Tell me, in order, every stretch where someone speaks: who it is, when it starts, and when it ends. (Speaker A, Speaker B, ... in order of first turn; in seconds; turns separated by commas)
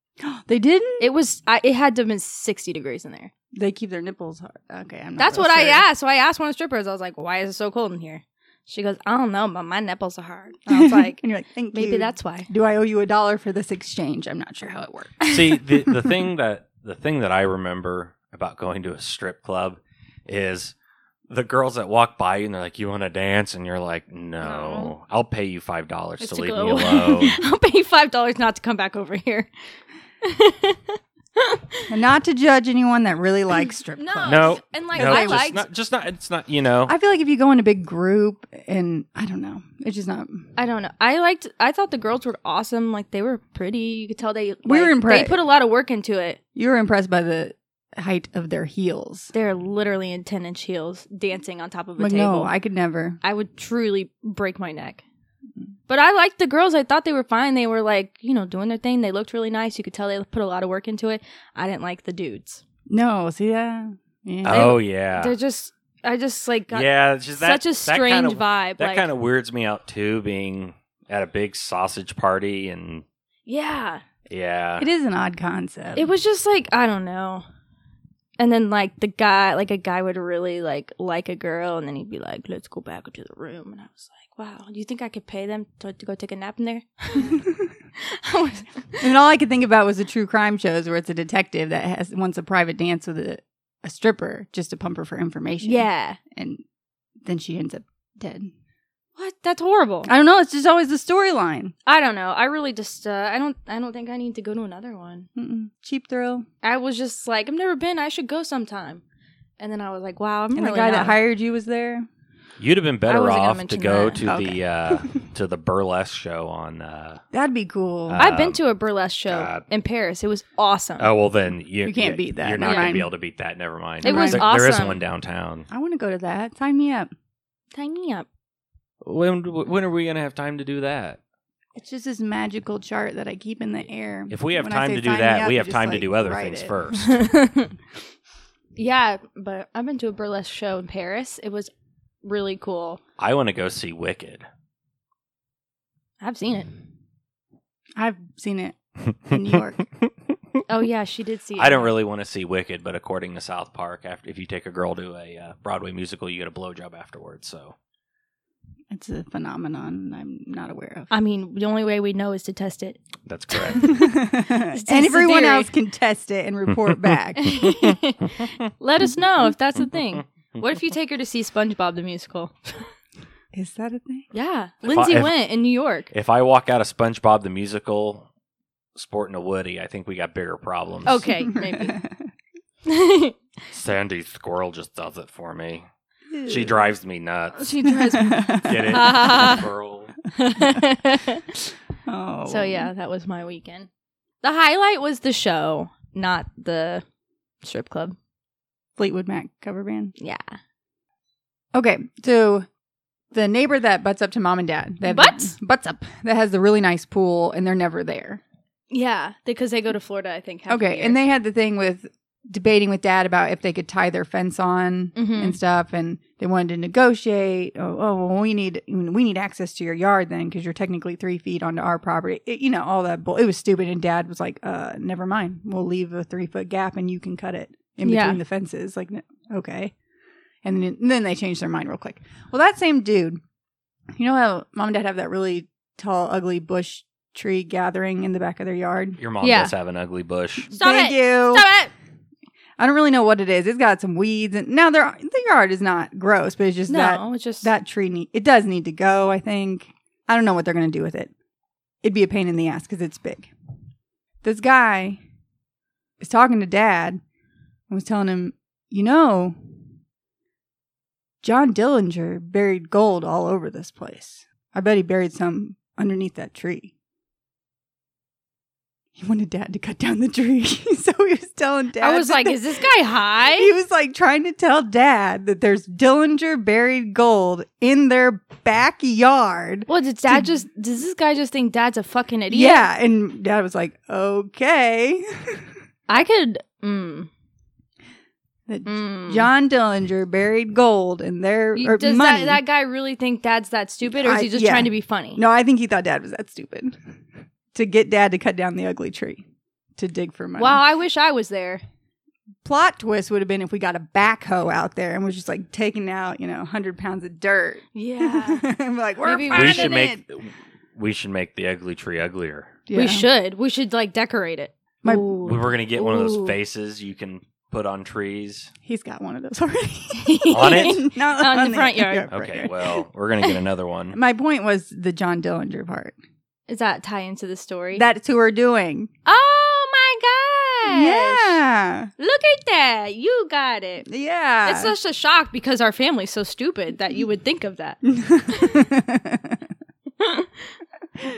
Speaker A: 0.2-1.1, Speaker B: 1.0-3.3, Speaker A: 3.5-5.9, Speaker B: 5.2-11.2, Speaker A: 10.7-15.3, Speaker B: 11.7-12.5, Speaker C: 15.2-20.7, Speaker C: 21.3-27.4, Speaker B: 24.4-24.9, Speaker B: 26.2-29.5, Speaker B: 30.2-31.8, Speaker A: 31.9-35.5, Speaker B: 33.9-35.7, Speaker C: 34.3-37.0, Speaker A: 36.9-40.5, Speaker B: 40.6-46.4, Speaker A: 44.6-45.4, Speaker A: 46.5-49.3, Speaker B: 49.3-52.5, Speaker A: 52.0-53.2, Speaker B: 53.2-55.0, Speaker B: 55.9-62.6, Speaker A: 62.9-64.8, Speaker C: 64.4-65.3, Speaker B: 64.5-69.1, Speaker C: 66.7-73.0, Speaker B: 73.5-74.0, Speaker C: 74.3-74.9, Speaker A: 74.8-76.1, Speaker B: 76.0-77.5, Speaker B: 78.4-87.5, Speaker B: 88.0-89.1, Speaker A: 89.0-96.6, Speaker B: 95.6-96.2, Speaker A: 97.2-98.5, Speaker B: 99.2-100.1, Speaker A: 100.0-101.8, Speaker B: 101.9-105.3, Speaker A: 105.4-106.5, Speaker B: 106.6-109.0, Speaker B: 109.6-111.2, Speaker A: 110.5-112.1, Speaker C: 112.6-117.2, Speaker B: 113.1-114.2, Speaker A: 114.2-115.1, Speaker A: 117.3-118.2, Speaker C: 118.1-118.6, Speaker B: 118.2-121.1, Speaker C: 119.3-119.7, Speaker C: 121.0-125.7, Speaker A: 121.8-123.1, Speaker B: 122.6-123.1, Speaker B: 124.0-125.0, Speaker A: 124.0-124.5, Speaker A: 125.7-127.1, Speaker B: 127.7-128.3, Speaker C: 129.0-131.2, Speaker A: 131.8-136.7, Speaker C: 134.3-137.2, Speaker B: 137.0-137.7, Speaker B: 138.8-141.7, Speaker B: 142.2-143.0, Speaker C: 143.2-144.5, Speaker B: 146.2-146.7, Speaker A: 148.0-149.9, Speaker B: 150.7-152.0, Speaker C: 151.6-157.8, Speaker A: 158.9-161.1, Speaker B: 161.1-164.1, Speaker C: 163.3-163.9, Speaker A: 163.8-167.6, Speaker B: 164.7-165.7, Speaker B: 167.4-172.9, Speaker A: 173.5-174.3, Speaker B: 174.3-176.1, Speaker C: 174.8-175.4, Speaker C: 176.1-178.3, Speaker C: 179.0-181.2, Speaker B: 181.1-182.0, Speaker A: 181.6-182.2, Speaker B: 182.9-183.4, Speaker C: 183.7-185.9, Speaker A: 186.3-186.8, Speaker C: 186.5-187.7, Speaker B: 187.6-189.7, Speaker A: 187.8-189.2, Speaker C: 188.6-190.1, Speaker B: 190.3-191.4, Speaker A: 192.1-192.9, Speaker B: 192.5-193.9, Speaker B: 194.4-197.0, Speaker B: 197.6-198.2, Speaker A: 199.0-200.1, Speaker B: 200.2-200.6, Speaker A: 201.7-202.7, Speaker A: 203.3-208.4, Speaker B: 205.0-205.6, Speaker B: 208.9-211.2, Speaker A: 210.7-229.9, Speaker B: 215.2-215.6, Speaker B: 228.0-228.4, Speaker A: 230.6-233.4, Speaker A: 234.1-239.2, Speaker C: 239.2-240.7, Speaker B: 239.4-239.7, Speaker A: 240.7-241.7, Speaker B: 240.7-241.9, Speaker A: 242.8-251.3, Speaker B: 246.9-247.7, Speaker A: 252.0-253.5, Speaker A: 254.4-255.2, Speaker A: 256.2-257.2, Speaker A: 257.9-259.6, Speaker A: 261.4-266.9, Speaker A: 269.2-272.9, Speaker B: 272.0-273.7, Speaker A: 273.5-280.6, Speaker B: 279.9-282.9, Speaker A: 282.5-285.8, Speaker B: 286.1-287.3, Speaker A: 288.7-292.6, Speaker B: 288.9-289.5, Speaker B: 291.8-295.4, Speaker A: 294.2-297.0, Speaker A: 297.7-299.4, Speaker A: 300.0-300.8, Speaker B: 300.6-301.8, Speaker A: 302.6-310.2, Speaker B: 307.9-308.7, Speaker B: 309.2-310.0, Speaker C: 309.5-312.8, Speaker A: 312.9-313.3, Speaker B: 312.9-316.6, Speaker A: 315.0-315.4, Speaker C: 315.4-318.7, Speaker A: 318.9-323.0, Speaker B: 320.2-322.3, Speaker C: 320.5-321.0, Speaker C: 322.3-324.2, Speaker A: 324.1-326.2, Speaker B: 326.7-328.1, Speaker A: 327.9-329.1, Speaker B: 329.3-331.6, Speaker A: 330.9-332.1, Speaker B: 332.2-334.1, Speaker A: 334.1-334.9, Speaker B: 334.6-338.9, Speaker A: 338.1-339.6, Speaker B: 340.2-340.7